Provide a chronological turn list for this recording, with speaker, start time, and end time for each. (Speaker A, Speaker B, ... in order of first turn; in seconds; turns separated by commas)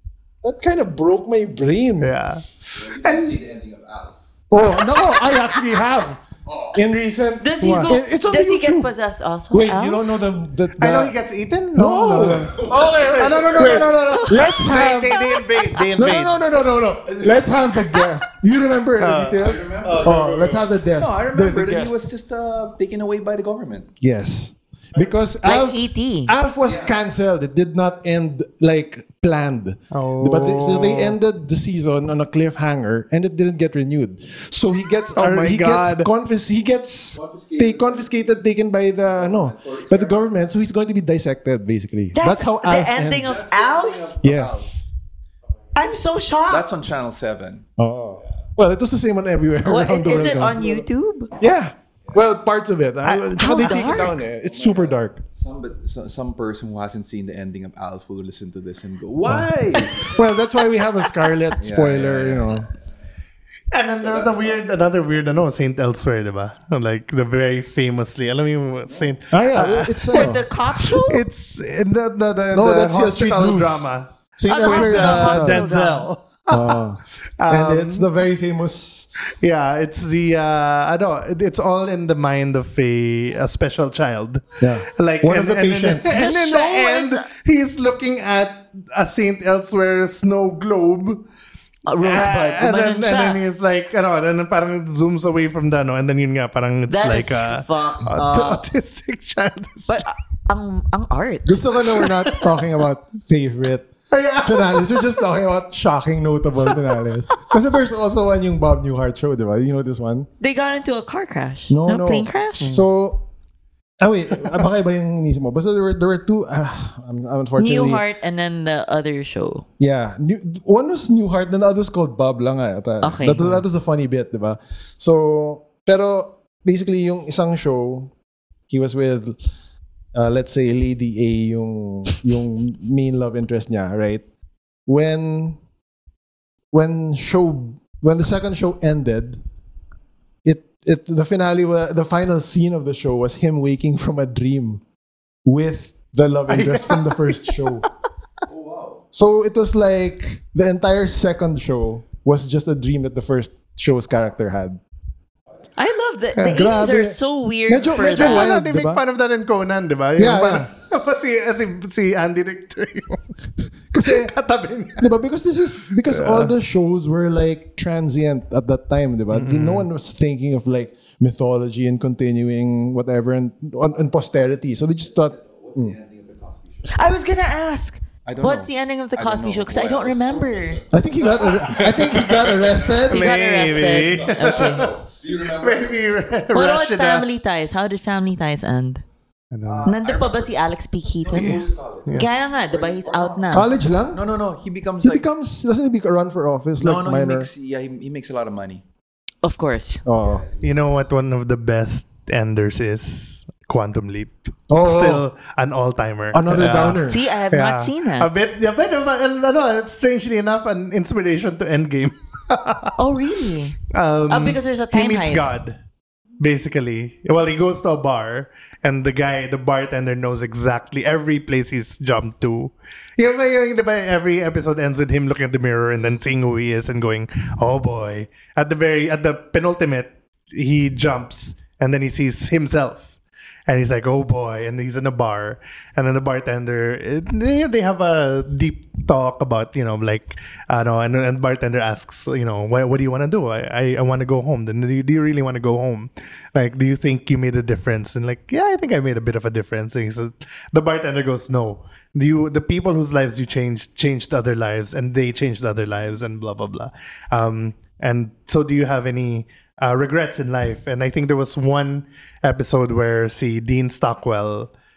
Speaker A: 0.4-2.1, Speaker B: 2.0-3.4, Speaker C: 2.7-4.2, Speaker A: 4.5-8.9, Speaker C: 6.5-6.8, Speaker D: 7.4-10.0, Speaker A: 9.5-11.2, Speaker B: 10.8-16.4, Speaker A: 11.7-15.2, Speaker C: 12.3-13.9, Speaker D: 13.9-15.9, Speaker A: 15.9-22.0, Speaker C: 17.1-17.5, Speaker B: 19.0-20.7, Speaker C: 19.4-20.3, Speaker C: 20.9-23.9, Speaker A: 24.0-43.5, Speaker D: 25.4-26.3, Speaker C: 26.6-26.9, Speaker B: 29.9-31.1, Speaker B: 35.1-36.1, Speaker C: 37.1-38.1, Speaker C: 39.1-40.4, Speaker D: 42.1-44.1, Speaker C: 43.1-44.8, Speaker A: 44.2-44.7, Speaker D: 45.7-46.7, Speaker C: 46.5-47.6, Speaker A: 47.8-50.8, Speaker D: 49.6-51.3, Speaker A: 51.4-55.2, Speaker B: 53.0-53.7, Speaker D: 53.4-54.2, Speaker C: 54.2-60.1, Speaker A: 59.3-62.7, Speaker C: 61.6-62.6, Speaker B: 63.7-76.8, Speaker C: 64.0-64.6, Speaker A: 69.3-70.4, Speaker D: 70.1-71.2, Speaker A: 72.5-75.7, Speaker D: 74.5-76.1, Speaker A: 76.5-79.1, Speaker B: 77.4-78.1, Speaker B: 79.4-91.2, Speaker A: 84.6-86.3, Speaker D: 86.0-87.3, Speaker D: 91.8-93.4, Speaker B: 92.0-100.0, Speaker D: 96.9-98.6, Speaker D: 99.9-101.5, Speaker A: 101.4-110.3, Speaker B: 102.0-102.5, Speaker B: 104.1-105.2, Speaker D: 110.4-112.7, Speaker A: 111.7-113.2, Speaker A: 114.0-118.0, Speaker D: 117.6-119.7, Speaker A: 119.8-128.1, Speaker D: 123.0-123.5, Speaker A: 128.7-129.4, Speaker A: 130.1-134.2, Speaker A: 134.9-135.6, Speaker A: 136.7-139.4, Speaker A: 140.4-144.8, Speaker A: 145.4-147.9, Speaker B: 146.5-147.6, Speaker C: 148.5-149.0, Speaker A: 149.1-154.8, Speaker D: 155.8-158.5, Speaker B: 156.4-156.7, Speaker A: 156.4-159.0, Speaker B: 157.9-163.2, Speaker A: 160.2-160.7, Speaker A: 163.9-164.3, Speaker B: 164.0-165.1, Speaker A: 165.0-175.9, Speaker B: 166.0-166.5, Speaker B: 169.3-169.9, Speaker C: 175.2-177.1, Speaker D: 176.9-180.8, Speaker C: 178.2-182.9, Speaker A: 180.9-183.3, Speaker B: 183.1-185.0, Speaker D: 183.1-184.9, Speaker C: 184.3-186.2, Speaker B: 185.5-187.2, Speaker D: 186.5-189.0, Speaker B: 189.5-189.9, Speaker C: 189.6-190.5, Speaker D: 189.8-193.7, Speaker C: 191.2-195.2, Speaker A: 193.5-194.2, Speaker A: 195.0-197.5, Speaker C: 196.8-198.8, Speaker D: 199.4-200.0, Speaker A: 200.0-200.4, Speaker C: 200.1-200.9, Speaker B: 200.6-212.9, Speaker A: 204.7-205.2, Speaker A: 206.3-207.2, Speaker D: 207.0-208.3, Speaker D: 213.0-213.8, Speaker B: 213.9-215.8, Speaker D: 214.3-215.5, Speaker B: 216.4-233.2, Speaker B: 233.7-264.7